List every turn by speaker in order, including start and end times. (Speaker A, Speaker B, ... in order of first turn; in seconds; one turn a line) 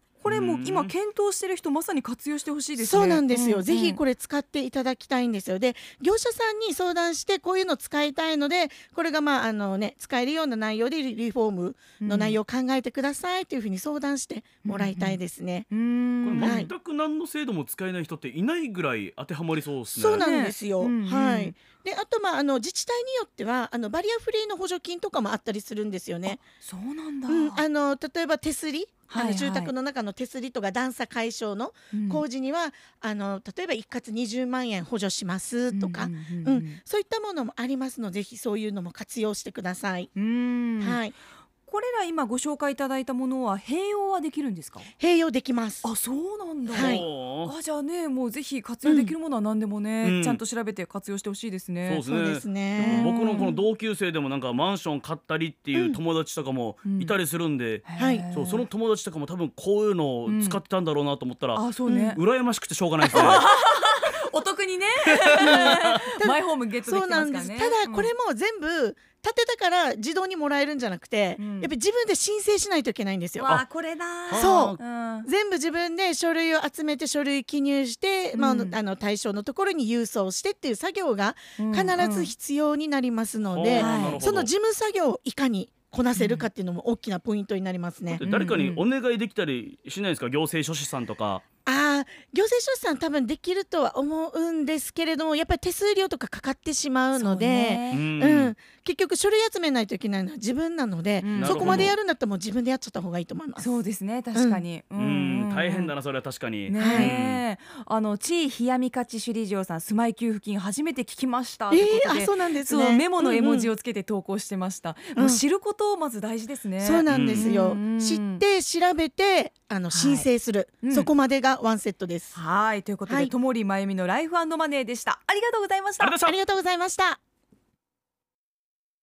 Speaker A: 0.2-4.0
Speaker B: 0.2-0.9
Speaker C: 2.8-15.7
Speaker A: 12.0-12.4
Speaker A: 14.6-15.2
Speaker A: 15.7-16.6
Speaker B: 16.2-20.3
Speaker C: 16.4-16.7
Speaker C: 19.9-26.4
Speaker A: 20.1-21.6
Speaker A: 26.3-27.6
Speaker C: 27.3-40.1
Speaker A: 29.1-29.7
Speaker A: 31.9-32.2
Speaker A: 35.7-36.8
Speaker A: 40.1-41.0
Speaker C: 40.8-41.1
Speaker A: 41.6-44.9
Speaker C: 45.0-45.9
Speaker A: 45.8-52.0
Speaker C: 46.6-47.0
Speaker B: 46.8-47.5
Speaker C: 48.8-49.1
Speaker B: 50.0-50.4
Speaker B: 51.8-63.4
Speaker C: 52.1-53.1
Speaker A: 52.8-53.6
Speaker A: 56.9-57.1
Speaker A: 57.8-58.6
Speaker C: 58.0-58.3
Speaker A: 60.2-60.6
Speaker A: 61.5-62.2
Speaker C: 61.9-62.2
Speaker A: 63.1-68.1
Speaker C: 63.1-63.4
Speaker B: 65.1-66.0
Speaker C: 65.4-73.5
Speaker A: 71.4-71.7
Speaker A: 73.4-75.3
Speaker B: 73.5-74.8
Speaker C: 74.3-88.3
Speaker A: 78.3-78.8
Speaker A: 81.6-82.3
Speaker B: 83.5-84.5
Speaker A: 83.7-84.2
Speaker A: 86.1-86.5
Speaker B: 88.1-91.4
Speaker A: 88.2-88.8
Speaker C: 91.6-103.8
Speaker A: 97.1-98.0
Speaker B: 97.9-98.5
Speaker A: 101.2-101.9
Speaker B: 101.3-102.0
Speaker A: 103.6-105.9
Speaker C: 104.3-104.6
Speaker B: 105.0-107.4
Speaker A: 106.7-118.4
Speaker C: 106.8-107.1
Speaker C: 111.7-113.7
Speaker C: 115.2-115.4
Speaker C: 116.8-122.4
Speaker B: 117.1-117.5
Speaker A: 119.9-120.3
Speaker A: 120.8-121.1
Speaker A: 122.3-126.1
Speaker C: 123.1-123.3
Speaker B: 126.0-126.4
Speaker C: 126.2-127.2